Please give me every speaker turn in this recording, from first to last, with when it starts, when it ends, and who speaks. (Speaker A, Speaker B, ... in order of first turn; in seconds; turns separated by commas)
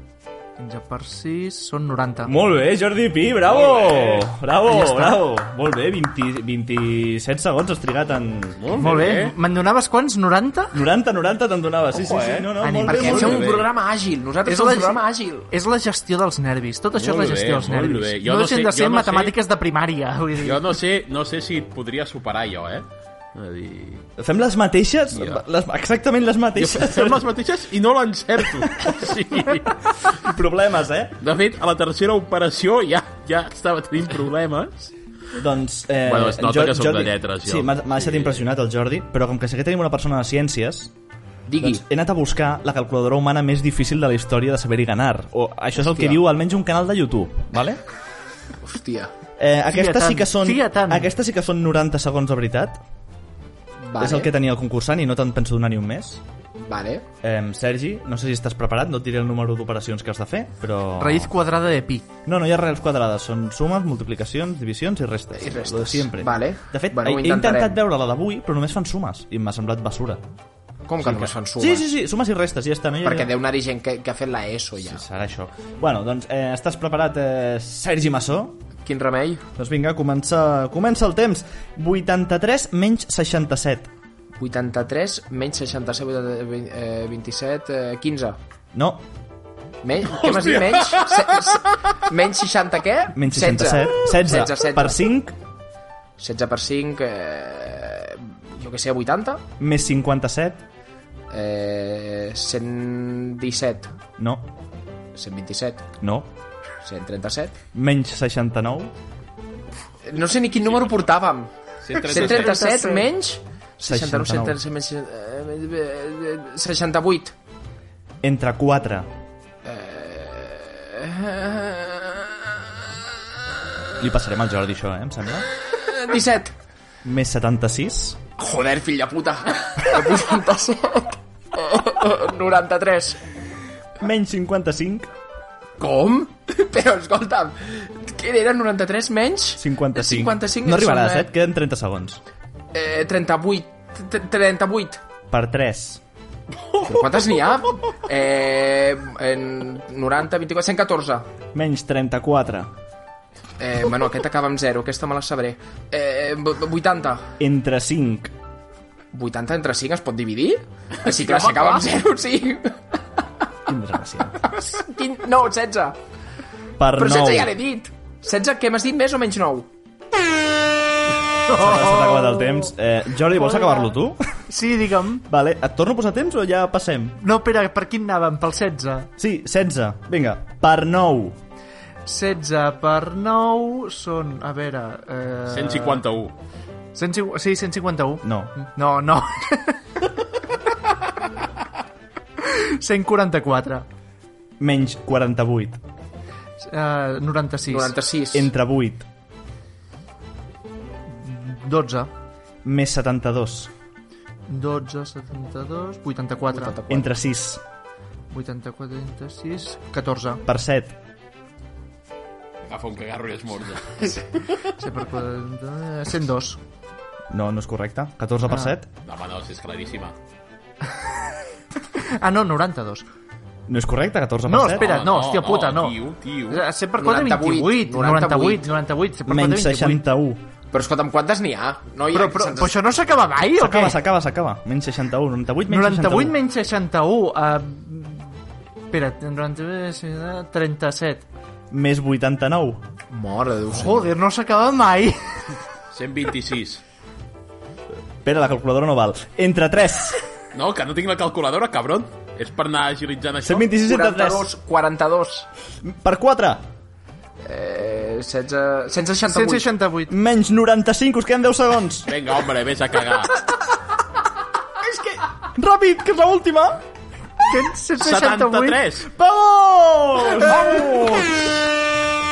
Speaker A: 0.6-2.3, Speaker B: 2.2-9.1, Speaker C: 3.5-4.3, Speaker A: 4.6-5.2, Speaker C: 8.6-9.3, Speaker A: 8.8-10.8, Speaker B: 10.7-13.5, Speaker C: 11.9-12.5, Speaker A: 12.6-13.4, Speaker D: 12.8-15.5, Speaker C: 13.1-13.7, Speaker A: 14.4-20.7, Speaker C: 16.9-19.4, Speaker C: 20.4-24.1, Speaker B: 24.2-27.3, Speaker C: 25.1-25.4, Speaker C: 26.6-30.1, Speaker B: 28.6-28.9, Speaker B: 30.0-31.2, Speaker C: 31.2-34.9, Speaker B: 35.4-40.9, Speaker C: 36.0-38.5, Speaker D: 41.5-41.8, Speaker B: 41.6-47.8, Speaker D: 45.8-46.2, Speaker D: 48.6-49.1, Speaker B: 49.4-52.8, Speaker A: 49.7-51.1, Speaker D: 53.8-54.3, Speaker B: 54.0-56.2, Speaker D: 56.6-57.0, Speaker B: 57.2-61.3, Speaker A: 61.0-62.0, Speaker B: 62.2-70.2, Speaker D: 65.4-67.8, Speaker D: 70.9-71.8, Speaker B: 71.6-73.3, Speaker D: 73.0-75.0, Speaker B: 74.8-78.6, Speaker D: 78.8-79.4, Speaker B: 79.6-83.9, Speaker D: 84.4-88.4, Speaker B: 88.7-89.0, Speaker D: 89.8-95.0, Speaker C: 90.0-91.6, Speaker B: 93.1-95.3, Speaker D: 96.2-99.4, Speaker B: 99.6-100.6, Speaker D: 101.3-103.9, Speaker B: 104.2-104.5, Speaker D: 105.1-105.9, Speaker B: 106.0-106.3, Speaker D: 106.8-107.6, Speaker B: 107.7-108.9, Speaker D: 110.0-117.3, Speaker C: 110.6-111.1, Speaker C: 111.8-112.7, Speaker A: 112.2-113.0, Speaker B: 113.8-114.6, Speaker B: 118.2-119.1, Speaker D: 119.6-122.4, Speaker B: 124.0-125.5, Speaker D: 125.7-126.5, Speaker B: 127.0-128.2, Speaker D: 128.4-133.2, Speaker B: 134.0-135.1, Speaker D: 135.8-141.3, Speaker B: 139.6-142.2, Speaker D: 142.7-145.0, Speaker B: 145.3-146.0, Speaker C: 146.7-147.1, Speaker D: 146.8-151.3, Speaker B: 151.5-152.7, Speaker D: 153.6-157.3, Speaker B: 157.4-158.3, Speaker D: 159.1-162.8, Speaker C: 161.0-161.9, Speaker B: 163.7-164.4, Speaker D: 164.4-166.0, Speaker B: 166.8-167.5, Speaker D: 166.9-169.7, Speaker A: 171.5-172.7, Speaker B: 171.5-174.2, Speaker A: 174.5-175.2, Speaker B: 175.2-177.2, Speaker A: 177.2-179.1, Speaker B: 179.2-181.4, Speaker A: 182.1-186.0, Speaker C: 185.5-186.3, Speaker A: 186.9-189.8, Speaker B: 188.2-188.6, Speaker A: 192.4-193.8, Speaker B: 194.6-195.8, Speaker A: 196.6-197.9, Speaker D: 197.7-198.5, Speaker B: 198.3-199.1, Speaker A: 201.1-202.1, Speaker B: 202.6-203.7, Speaker A: 204.5-206.7, Speaker D: 206.5-207.1, Speaker B: 206.9-207.6, Speaker A: 208.3-210.4, Speaker B: 210.4-210.9, Speaker C: 212.6-214.4, Speaker A: 214.8-216.6, Speaker B: 217.3-218.9, Speaker A: 218.5-218.7, Speaker C: 219.0-220.1, Speaker A: 221.9-223.0, Speaker B: 223.7-224.9, Speaker A: 224.5-226.0, Speaker C: 224.8-226.6, Speaker A: 226.5-230.0, Speaker D: 227.0-228.8, Speaker B: 229.2-230.4, Speaker D: 230.7-232.8, Speaker A: 232.1-234.0, Speaker B: 233.6-236.3, Speaker A: 235.7-238.3, Speaker A: 238.9-241.2, Speaker B: 241.7-242.8, Speaker D: 243.1-244.1, Speaker A: 243.7-245.4, Speaker C: 245.9-246.8, Speaker B: 248.2-250.2, Speaker C: 250.5-253.7, Speaker B: 253.4-254.5, Speaker D: 253.7-255.5, Speaker B: 255.8-256.6, Speaker D: 257.4-259.7, Speaker A: 259.3-260.1, Speaker B: 260.1-262.1, Speaker C: 262.1-263.4, Speaker B: 265.4-266.8, Speaker A: 267.5-268.8, Speaker C: 268.0-269.1, Speaker B: 269.1-271.1, Speaker C: 270.4-271.4